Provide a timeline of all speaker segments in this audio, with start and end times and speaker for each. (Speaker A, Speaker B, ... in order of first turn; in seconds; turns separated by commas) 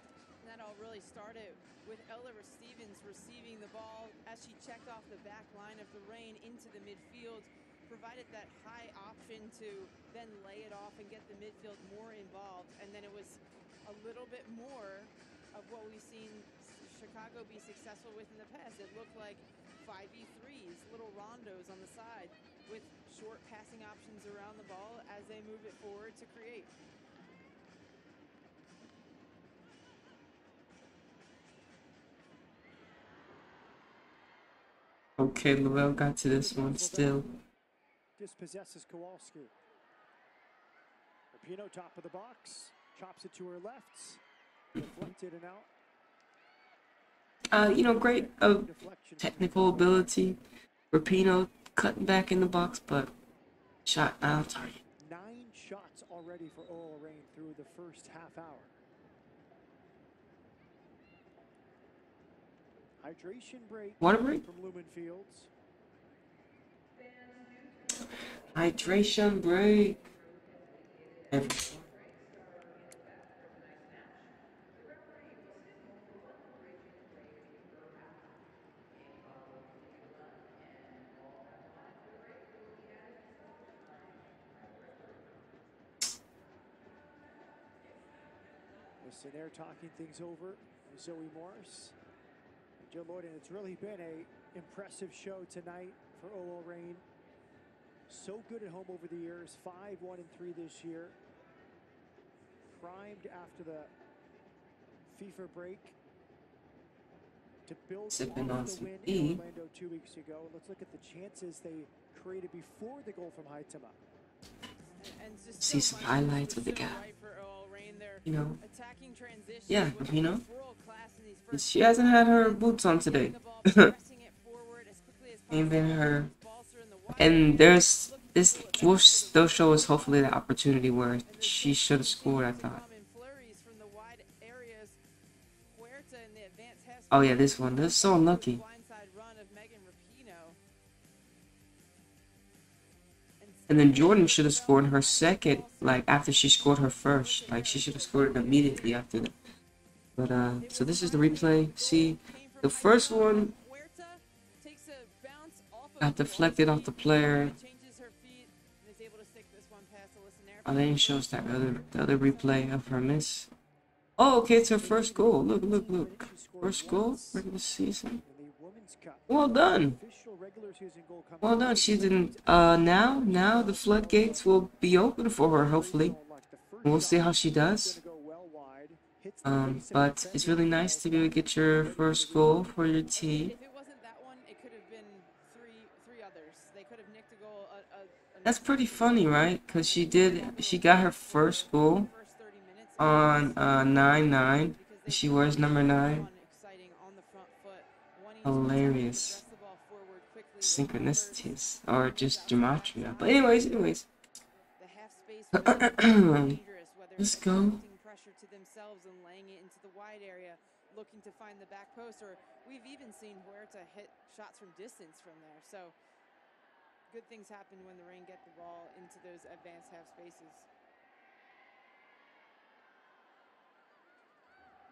Speaker A: 0.4-26.7, Speaker B: 35.2-37.4, Speaker C: 36.3-37.2, Speaker C: 38.2-39.5, Speaker C: 41.3-44.2, Speaker C: 44.7-45.7, Speaker B: 47.5-50.4, Speaker C: 47.8-50.2, Speaker B: 50.9-53.1, Speaker B: 53.8-54.8, Speaker C: 55.0-58.8, Speaker C: 63.0-65.5, Speaker B: 64.0-64.4, Speaker B: 68.5-70.0, Speaker A: 69.8-70.6, Speaker B: 71.3-71.8, Speaker A: 71.8-72.2, Speaker C: 89.0-91.9, Speaker C: 92.8-97.0, Speaker C: 98.1-101.2, Speaker C: 102.7-103.9, Speaker C: 105.1-106.0, Speaker C: 107.7-114.0, Speaker B: 108.1-109.4, Speaker A: 115.0-130.3, Speaker B: 115.6-117.0, Speaker B: 118.2-118.6, Speaker B: 119.7-120.4, Speaker B: 121.5-123.9, Speaker B: 125.5-126.3, Speaker B: 127.2-132.8, Speaker A: 131.2-135.0, Speaker A: 135.7-140.6, Speaker B: 137.1-138.6, Speaker A: 143.4-146.2, Speaker B: 143.7-149.3, Speaker A: 147.0-148.9, Speaker B: 150.2-153.5, Speaker A: 150.6-162.9, Speaker B: 156.0-157.5, Speaker B: 160.6-163.5, Speaker B: 164.2-168.2, Speaker C: 164.8-167.4, Speaker C: 168.2-174.7, Speaker B: 169.3-170.0, Speaker B: 171.4-176.1, Speaker C: 175.5-182.8, Speaker B: 176.8-178.0, Speaker B: 179.4-183.6, Speaker A: 183.2-203.8, Speaker B: 188.4-192.1, Speaker B: 193.0-196.3, Speaker B: 198.4-199.4, Speaker B: 200.6-204.1, Speaker A: 204.8-215.9, Speaker B: 205.5-206.6, Speaker B: 207.2-207.8, Speaker A: 217.1-220.7